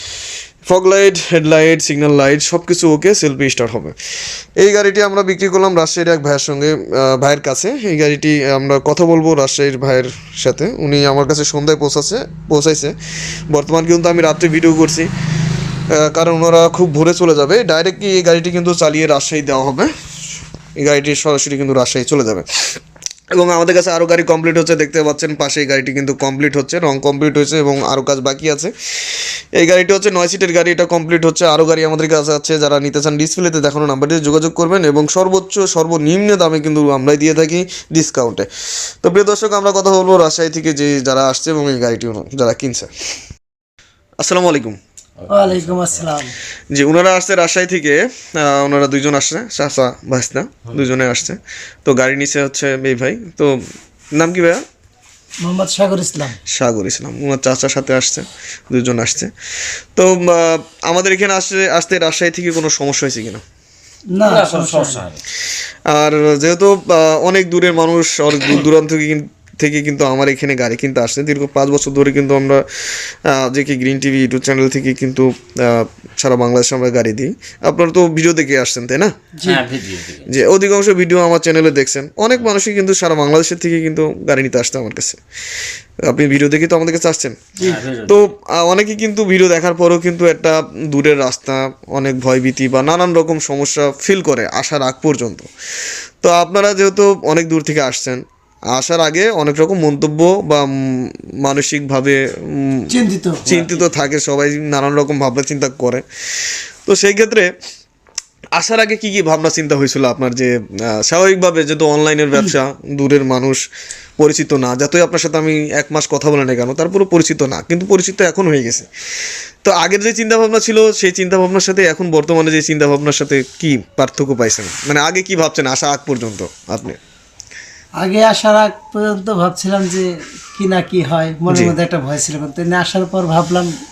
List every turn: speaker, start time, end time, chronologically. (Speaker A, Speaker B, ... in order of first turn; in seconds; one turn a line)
Speaker A: 0.7-4.0
Speaker A: 4.6-13.0
Speaker A: 13.5-15.1
Speaker A: 15.9-19.9
Speaker A: 20.8-22.8
Speaker A: 23.3-42.9
Speaker A: 44.2-44.8
Speaker B: 45.2-46.0
Speaker C: 45.3-46.4
Speaker A: 46.7-53.6
Speaker A: 54.1-54.6
Speaker C: 55.4-56.4
Speaker A: 56.5-59.3
Speaker A: 60.0-63.4
Speaker C: 64.1-65.1
Speaker B: 64.3-65.2
Speaker A: 65.9-79.1
Speaker C: 79.4-79.6
Speaker B: 79.5-80.3
Speaker A: 80.3-85.2
Speaker A: 86.0-87.4
Speaker B: 87.6-88.2
Speaker A: 88.1-95.5
Speaker A: 96.2-102.9
Speaker C: 102.9-103.4
Speaker B: 103.5-103.9
Speaker A: 103.5-107.5
Speaker A: 108.5-113.6
Speaker A: 114.2-118.9
Speaker A: 119.6-127.0
Speaker C: 128.0-133.7
Speaker A: 131.5-131.8